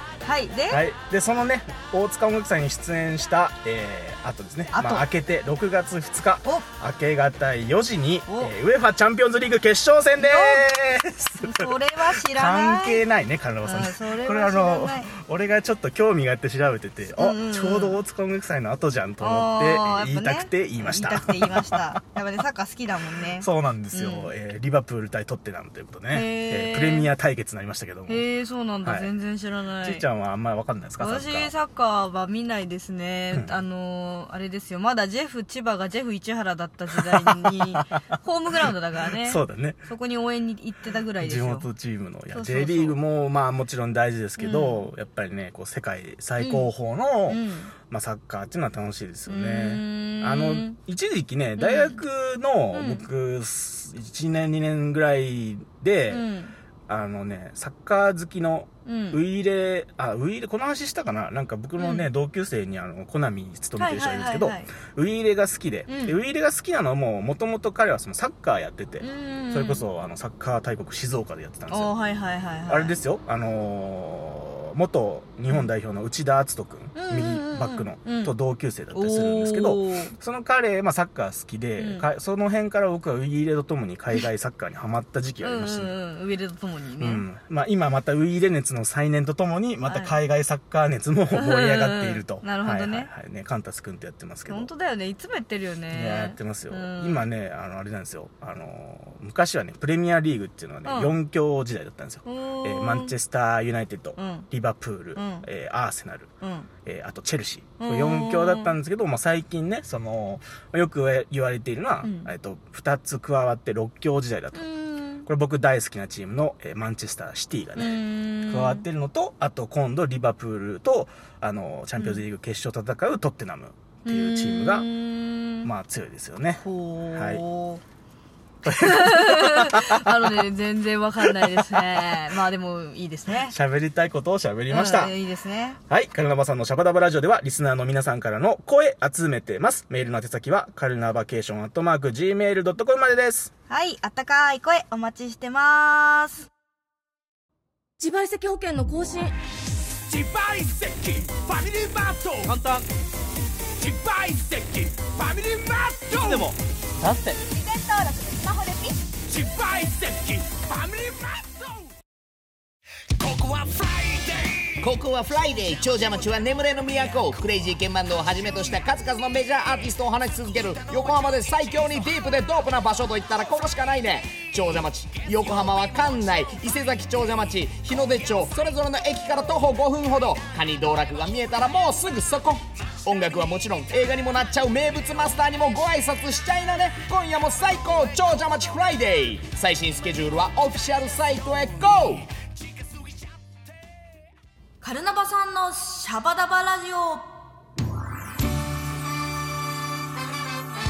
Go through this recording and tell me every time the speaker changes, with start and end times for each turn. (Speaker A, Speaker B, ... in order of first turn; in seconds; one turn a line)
Speaker A: 0.2-0.8
Speaker B: 0.7-22.0
Speaker A: 4.7-5.1
Speaker A: 8.3-8.5
Speaker A: 10.2-10.7
Speaker A: 11.4-13.0
Speaker A: 13.6-15.1
Speaker A: 17.1-18.0
Speaker A: 19.2-24.3
Speaker B: 23.4-28.2
Speaker A: 26.1-27.1
Speaker A: 28.1-30.1
Speaker B: 28.8-29.1
Speaker B: 29.8-31.5
Speaker A: 31.0-41.7
Speaker B: 37.0-38.0
Speaker B: 39.2-39.8
Speaker B: 41.2-56.3
Speaker A: 42.3-43.0
Speaker A: 44.4-44.9
Speaker A: 46.4-46.7
Speaker A: 47.3-47.7
Speaker A: 49.3-50.8
Speaker A: 51.6-52.0
Speaker A: 52.7-53.1
Speaker A: 56.1-56.5
Speaker B: 56.9-71.9
Speaker A: 58.9-59.2
Speaker A: 61.8-62.1
Speaker A: 63.8-64.7
Speaker A: 65.9-66.2
Speaker A: 69.0-69.8
Speaker A: 71.7-73.0
Speaker B: 72.7-85.9
Speaker A: 77.0-78.3
Speaker A: 78.9-80.1
Speaker A: 81.8-82.1
Speaker A: 85.4-87.2
Speaker B: 87.0-94.7
Speaker A: 89.9-90.1
Speaker A: 91.3-93.1
Speaker A: 94.5-97.3
Speaker B: 95.9-106.3
Speaker A: 100.8-101.2
Speaker A: 102.2-103.1
Speaker A: 104.2-104.5
Speaker A: 105.2-105.5
Speaker A: 106.4-106.7
Speaker B: 106.8-114.7
Speaker A: 107.8-108.7
Speaker A: 112.0-112.3
Speaker A: 114.5-115.3
Speaker B: 115.2-124.9
Speaker A: 117.8-118.9
Speaker A: 122.0-122.2
Speaker A: 124.1-125.7
Speaker B: 125.6-127.4
Speaker A: 126.6-127.8
Speaker B: 128.6-130.4
Speaker A: 128.7-133.6
Speaker B: 131.2-132.0
Speaker B: 133.4-135.1
Speaker A: 134.7-135.8
Speaker B: 135.9-143.5
Speaker A: 143.7-146.5
Speaker A: 148.0-149.3
Speaker C: 150.1-152.9
Speaker C: 153.8-156.6
Speaker B: 157.0-157.4
Speaker A: 157.4-159.0
Speaker C: 159.3-161.9
Speaker C: 163.2-164.6
Speaker D: 164.8-192.3
Speaker A: 194.8-197.3